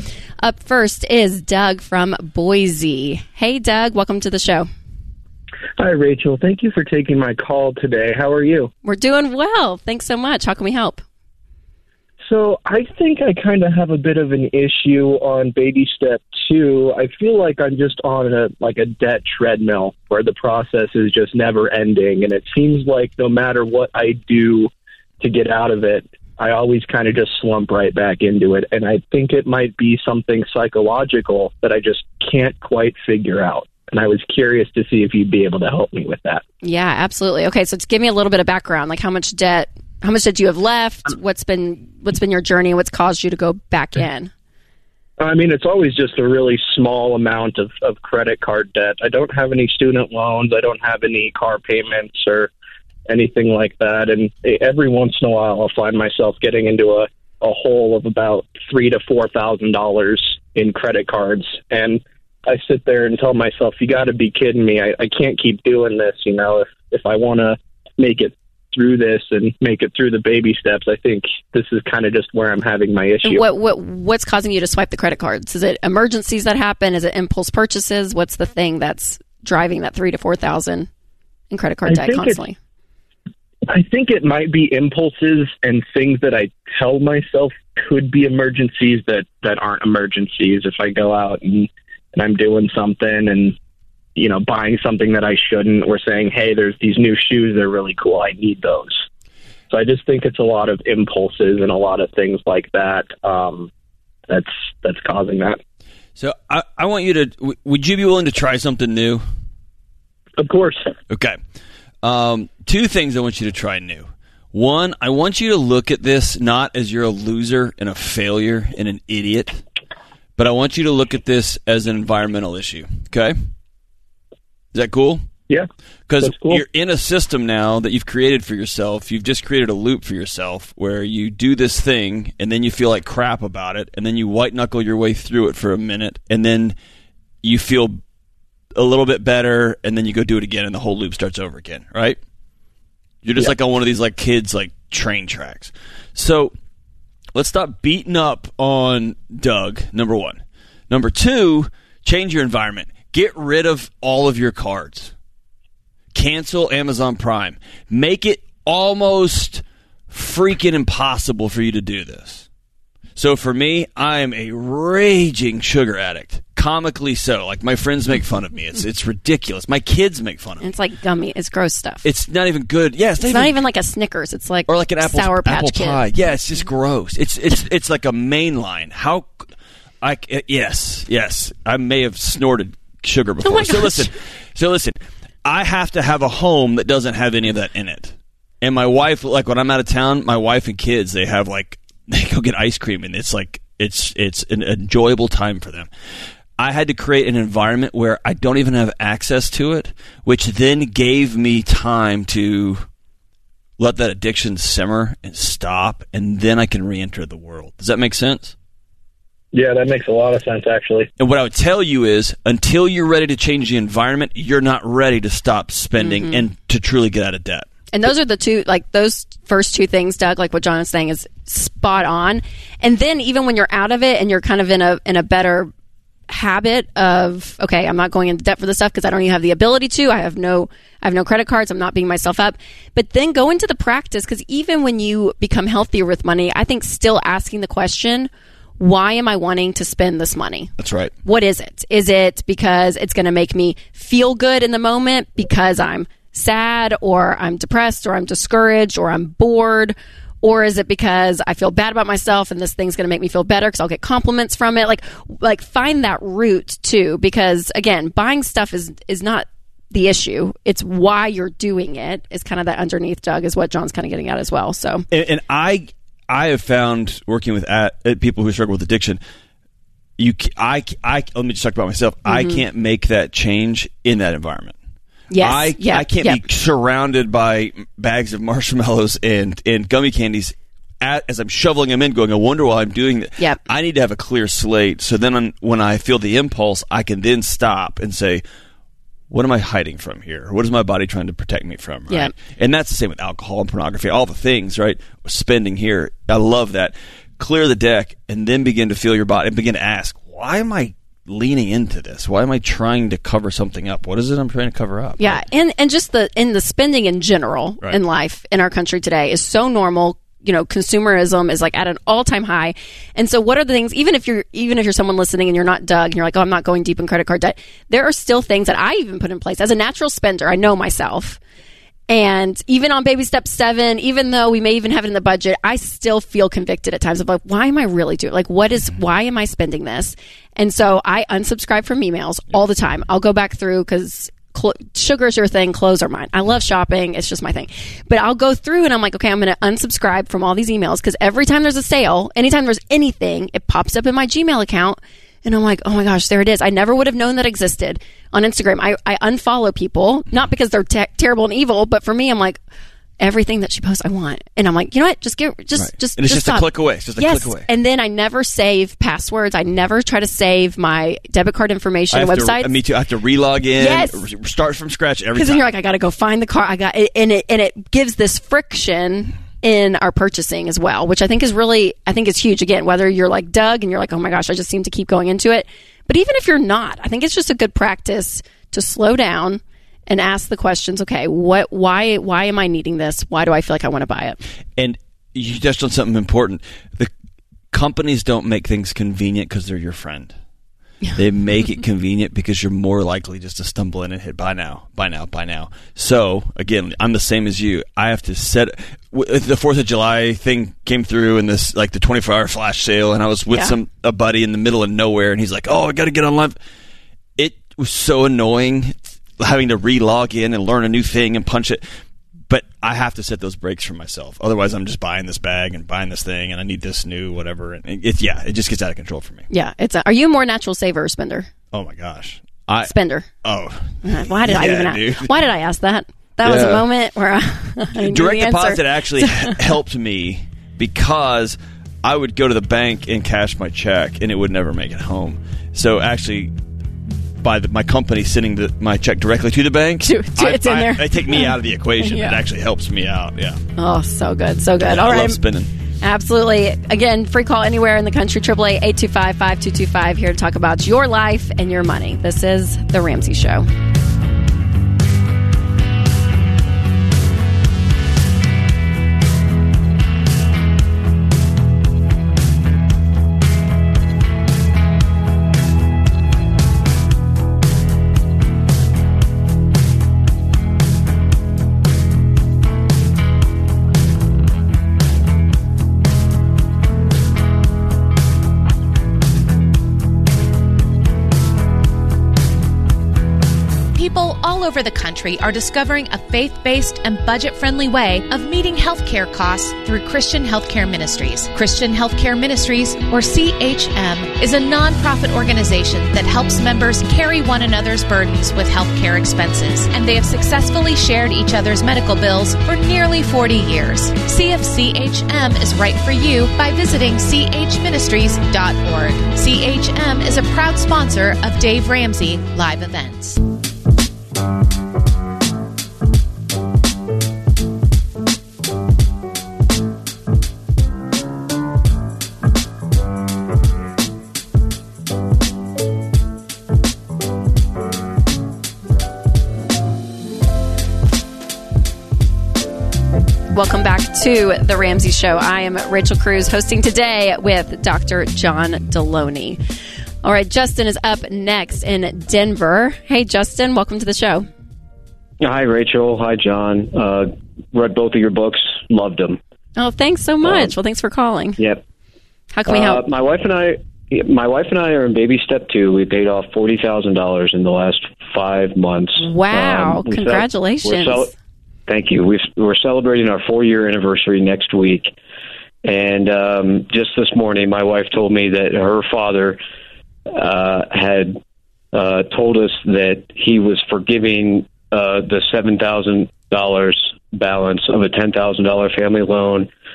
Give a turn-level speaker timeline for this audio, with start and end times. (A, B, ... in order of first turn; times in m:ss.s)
0:00.4-0:04.7 A
0:05.8-0:08.7 B
0:08.8-0:11.0 A
0:12.2-0:36.4 B
0:36.6-0:44.3 A
0:45.2-0:52.5 B
0:53.1-1:13.4 B
1:13.2-1:20.9 A
1:21.5-1:22.6 A
1:21.8-1:22.4 B
1:23.7-1:33.5 B
1:34.1-1:39.0 B
1:39.7-1:43.7 B
1:44.3-1:45.6 B
1:46.2-1:49.2 C
1:50.4-1:50.9 B
1:51.1-1:51.4 C
1:52.0-1:59.6 C
2:00.4-2:03.4 C
2:04.7-2:05.3 C
2:06.1-2:16.8 C
2:06.2-2:06.6 B
2:17.4-2:18.0 C
2:18.7-2:22.2 C
2:23.2-2:26.5 C
2:27.3-2:35.1 C
2:36.1-2:42.5 C
2:43.2-2:50.7 C
2:50.6-2:52.1 A
2:52.0-2:53.6 C
2:53.2-2:56.0 A
2:54.7-2:59.5 C
3:00.0-3:15.9 C
3:03.4-3:04.1 A
3:16.6-3:22.8 C
3:23.8-3:28.6 C
3:29.5-3:31.1 B
3:31.2-3:37.7 C
3:36.0-3:36.4 A
3:37.9-3:45.7 A
3:46.3-4:00.7 A
4:00.8-4:01.1 C
4:01.2-4:25.0 A
4:25.1-4:29.2 C
4:30.2-4:34.8 C
4:32.2-4:32.6 A
4:35.3-4:36.4 A
4:35.4-4:48.4 C
4:49.3-5:05.4 C
5:05.2-5:21.4 A
5:22.1-5:52.6 A
5:53.2-6:02.7 A
5:55.7-5:57.7 C
6:02.1-6:05.7 C
6:03.8-6:04.3 A
6:05.3-6:24.4 A
6:24.8-6:27.1 C
6:27.7-6:30.3 C
6:31.2-6:46.6 C
6:47.4-6:51.8 C
6:52.5-6:59.4 C
6:59.5-7:01.5 A
7:01.7-7:05.3 C
7:02.8-7:03.3 A
7:04.0-7:09.6 A
7:06.4-7:06.8 C
7:08.0-7:16.5 C
7:17.4-7:23.6 C
7:20.0-7:22.4 A
7:23.8-7:25.4 A
7:24.8-7:25.7 C
7:26.0-7:33.7 A
8:03.9-8:33.4 D
8:53.5-8:59.6 A
9:00.2-9:04.5 A
9:05.4-9:09.4 E
9:09.8-9:11.6 A
9:10.4-9:10.7 E
9:11.6-9:11.8 E
9:12.5-9:13.0 A
9:12.7-9:21.3 E
9:19.2-9:21.3 A
9:21.9-9:25.1 E
9:25.8-9:29.6 E
9:30.3-9:31.4 E
9:31.9-9:39.7 E